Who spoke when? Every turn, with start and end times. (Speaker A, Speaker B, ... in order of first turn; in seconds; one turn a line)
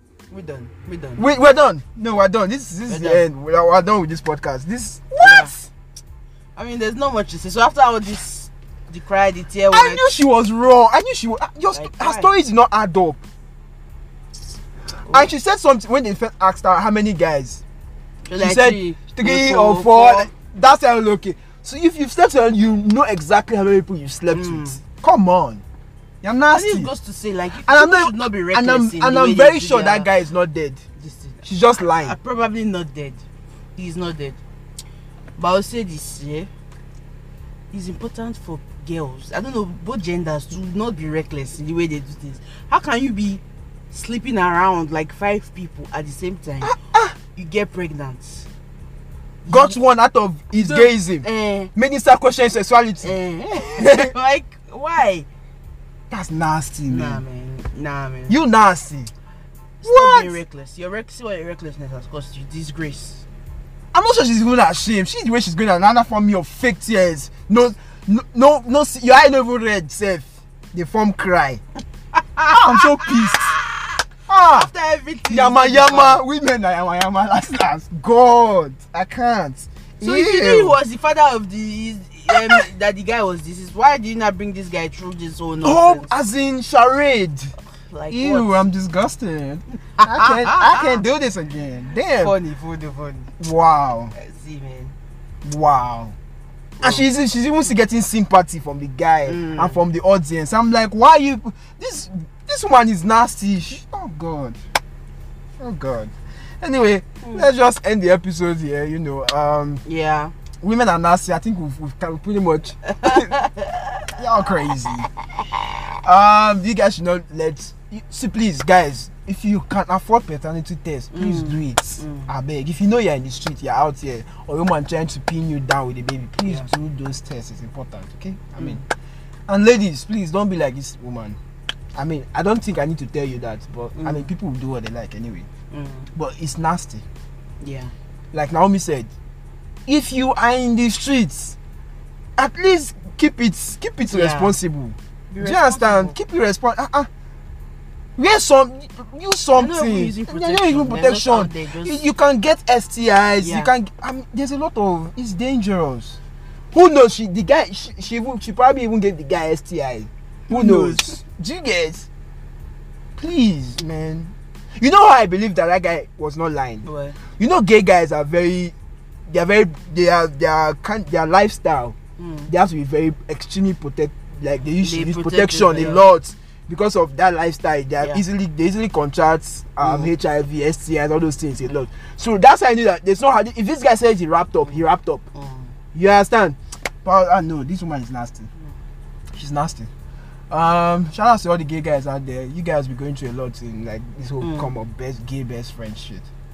Speaker A: 0.3-1.3
Speaker B: 1.2-5.7
Speaker A: 2.9-3.2
Speaker A: 5.2-5.5
Speaker A: 6.6-10.1
Speaker B: 9.7-13.2
Speaker A: 11.7-12.3
Speaker B: 15.1-17.6
Speaker A: 18.3-20.3
Speaker B: 18.4-25.6
Speaker A: 24.3-24.8
Speaker B: 26.2-26.9
Speaker A: 26.5-30.1
Speaker B: 27.6-30.8
Speaker A: 31.0-33.2
Speaker B: 31.4-32.2
Speaker A: 33.8-34.4
Speaker A: 35.4-36.5
Speaker A: 37.7-48.5
Speaker B: 46.6-47.1
Speaker A: 49.5-49.8
Speaker B: 49.5-54.1
Speaker A: 50.5-51.7
Speaker A: 53.0-55.3
Speaker B: 56.1-57.2
Speaker A: 56.9-58.4
Speaker B: 58.3-59.1
Speaker A: 59.8-63.2
Speaker B: 59.8-60.4
Speaker B: 63.9-71.6
Speaker A: 72.2-76.2
Speaker B: 72.5-73.6
Speaker B: 74.3-74.7
Speaker B: 75.3-80.8
Speaker A: 80.0-86.1
Speaker B: 82.3-82.6
Speaker B: 85.6-87.5
Speaker A: 87.9-88.6
Speaker B: 88.1-92.4
Speaker A: 90.0-91.0
Speaker A: 92.2-93.3
Speaker B: 93.4-94.1
Speaker A: 94.1-94.9
Speaker B: 95.4-96.2
Speaker A: 96.8-97.1
Speaker B: 96.8-104.6
Speaker A: 99.3-99.8
Speaker B: 105.6-109.8
Speaker A: 107.2-107.5
Speaker A: 109.8-110.3
Speaker B: 110.6-113.4
Speaker A: 112.8-114.1
Speaker B: 114.2-115.1
Speaker B: 116.0-128.8
Speaker A: 121.1-122.3
Speaker A: 128.6-128.9
Speaker B: 129.5-131.4
Speaker B: 131.9-135.5
Speaker A: 134.0-134.3
Speaker A: 135.7-136.1
Speaker B: 136.1-137.1
Speaker A: 137.6-137.9
Speaker B: 138.3-139.1
Speaker B: 139.9-141.6
Speaker B: 142.4-147.1
Speaker A: 144.1-144.6
Speaker A: 145.3-146.2
Speaker B: 148.2-156.2
Speaker A: 149.6-152.1
Speaker A: 153.4-153.7
Speaker B: 156.7-162.1
Speaker A: 160.5-161.2
Speaker B: 163.2-168.7
Speaker A: 166.8-167.2
Speaker B: 169.3-172.0
Speaker A: 172.2-172.5
Speaker B: 172.5-185.3
Speaker A: 174.8-176.0
Speaker A: 179.8-180.1
Speaker A: 184.6-185.7
Speaker B: 185.9-188.5
Speaker B: 189.3-189.9
Speaker B: 190.5-196.3
Speaker A: 194.4-194.7